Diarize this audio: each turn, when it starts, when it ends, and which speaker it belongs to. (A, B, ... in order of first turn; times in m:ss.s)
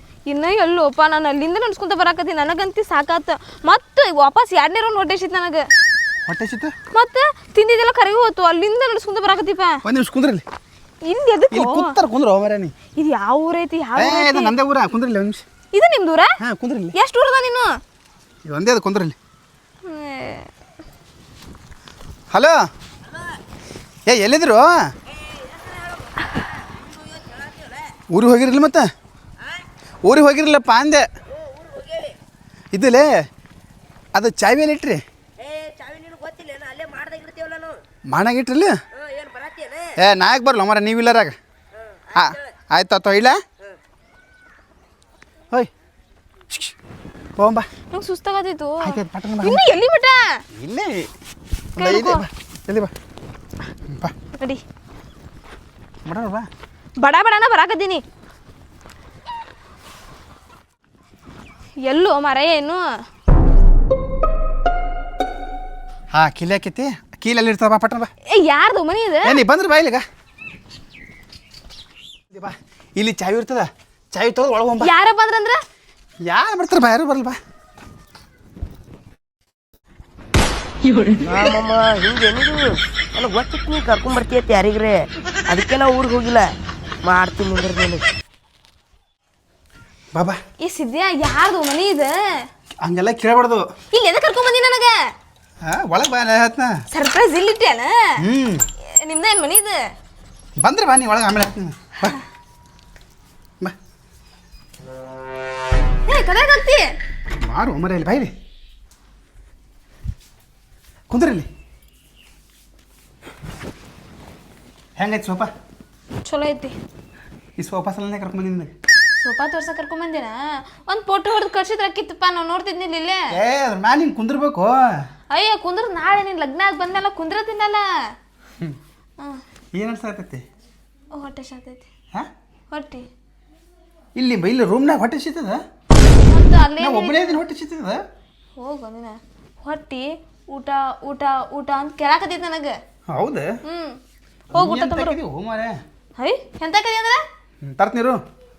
0:00.3-0:05.6 A
0:06.2-0:06.7 B
0:06.9-0:09.8 A
0:09.8-0:10.4 B
0:11.0-0:11.9 A
0:11.5-0:12.7 B
0:13.0-0:14.5 A
0:14.0-0:15.4 B
0:15.7-0:16.3 A
0:16.4-0:16.9 B
0:16.9-0:17.7 A
0:18.4-0:19.2 B
0:19.8-0:20.5 A
0:22.3-0:22.6 B
0:24.1-0:24.8 B
0:26.0-0:26.3 C
0:27.2-0:27.7 C
0:28.1-0:28.9 B
0:30.0-0:31.0 B
0:31.4-0:32.2 C
0:32.7-0:33.1 B
0:34.1-0:35.0 B
0:35.4-0:37.8 C
0:38.1-0:38.7 B
0:38.9-0:39.9 C
0:40.0-0:41.3 B
0:42.1-0:43.4 B
0:47.4-0:47.6 B
0:47.9-0:50.4 A
0:48.8-0:49.6 B
0:50.6-0:51.1 B
0:51.8-0:52.2 A
0:51.8-0:52.9 B
0:53.9-0:54.1 B
0:54.4-0:54.6 A
0:56.0-0:56.5 B
0:57.0-0:58.0 A
1:01.8-1:02.8 A
1:06.1-1:08.1 B
1:08.3-1:09.4 A
1:09.2-1:10.0 B
1:12.3-1:14.9 B
1:14.8-1:15.6 A
1:16.2-1:17.4 B
1:21.2-1:25.0 C
1:25.5-1:26.5 C
1:27.0-1:28.0 C
1:30.6-1:32.1 A
1:32.8-1:33.6 B
1:33.9-1:34.9 A
1:35.6-1:36.7 B
1:36.9-1:37.9 A
1:38.2-1:38.6 B
1:39.0-1:39.8 A
1:40.6-1:42.2 B
1:46.0-1:46.8 A
1:47.4-1:48.3 B
1:51.1-1:51.5 B
1:55.0-1:55.5 B
1:56.2-1:56.7 A
1:57.6-1:58.7 B
1:59.2-2:03.2 A
2:03.3-2:04.8 B
2:05.3-2:07.8 A
2:09.7-2:10.4 B
2:11.1-2:11.9 A
2:12.7-2:13.0 A
2:14.2-2:15.6 B
2:16.2-2:17.4 A
2:16.8-2:18.0 B
2:18.6-2:22.7 A
2:23.1-2:23.5 B
2:23.6-2:24.0 A
2:24.5-2:25.8 B
2:24.5-2:25.2 A
2:26.2-2:27.2 A
2:27.6-2:28.2 B